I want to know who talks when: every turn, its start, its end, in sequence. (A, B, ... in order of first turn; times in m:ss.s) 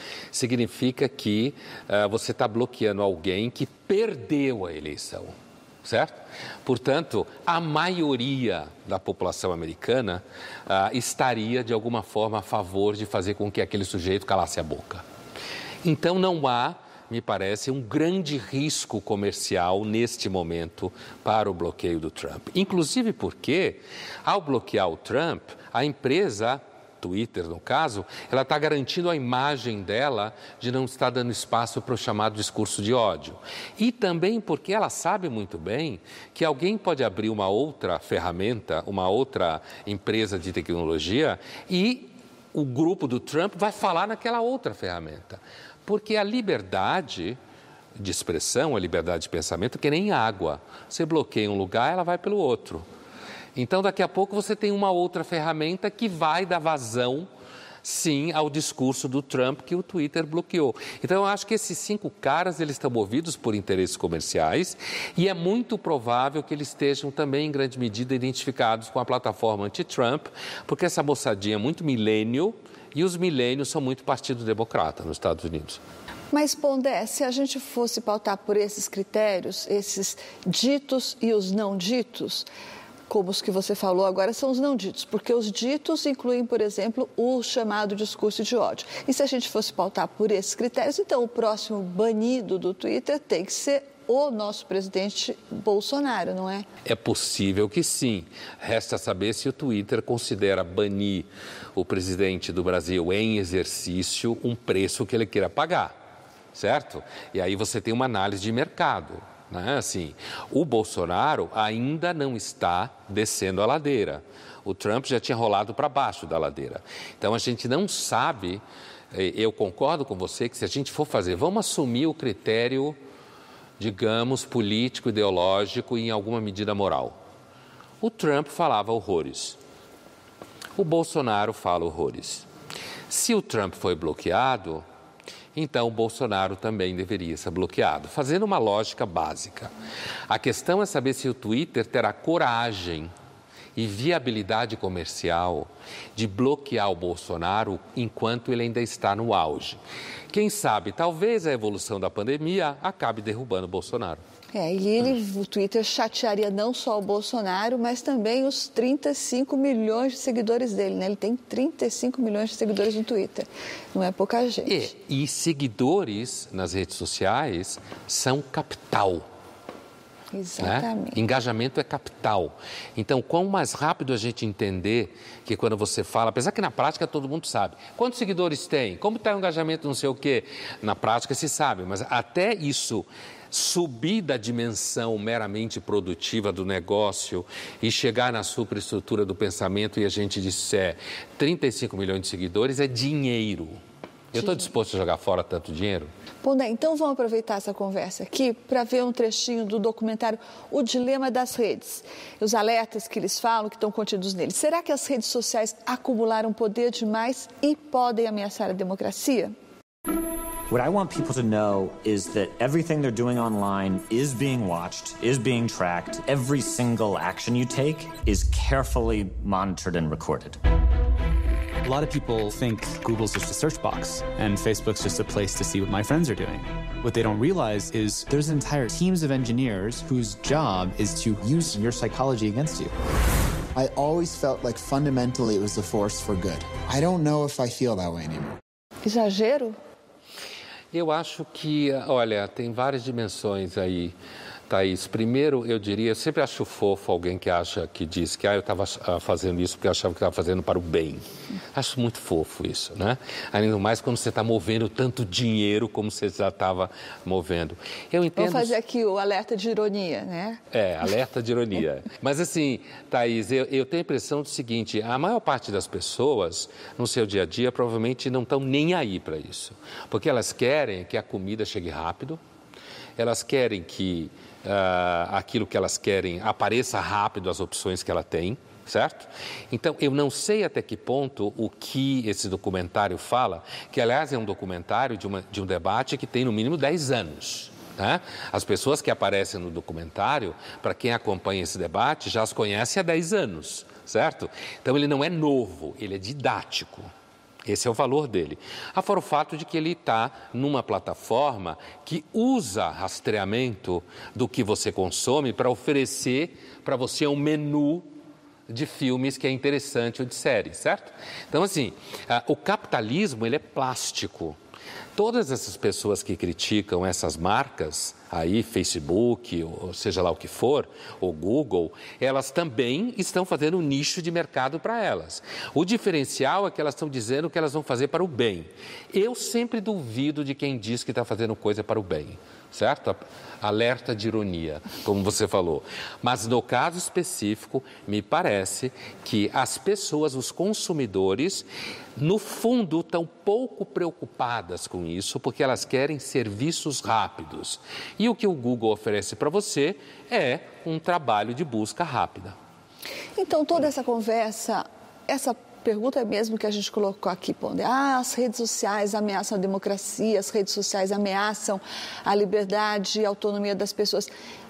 0:00.3-0:15.0 A
0:15.8-0:47.4 A
0:48.0-0:52.9 A
0:53.5-0:57.3 A
0:57.8-1:15.8 A
1:16.3-1:22.4 B
1:23.1-1:36.6 B
1:36.8-1:46.0 A
1:46.5-2:03.0 A
2:03.8-2:07.2 A
2:08.0-2:09.6 A
2:10.8-2:12.5 A
2:13.1-2:14.8 A
2:15.5-2:19.7 A
2:20.3-2:23.1 A
2:23.7-2:34.2 A
2:34.5-2:44.8 B
2:44.6-2:49.3 A
2:50.3-2:51.2 B
2:50.6-3:13.8 A
3:14.3-3:16.1 A
3:16.4-3:29.5 B
3:30.7-3:40.6 C
3:41.8-3:52.9 D
3:53.7-3:58.5 E
3:59.0-3:59.8 B
4:00.9-4:04.2 A
4:04.7-4:18.8 A
4:18.4-4:20.6 B
4:20.7-4:32.4 A
4:33.2-4:57.1 A
4:57.6-5:08.1 A
5:08.7-5:14.6 A
5:15.2-5:52.6 A
5:53.4-6:04.3 B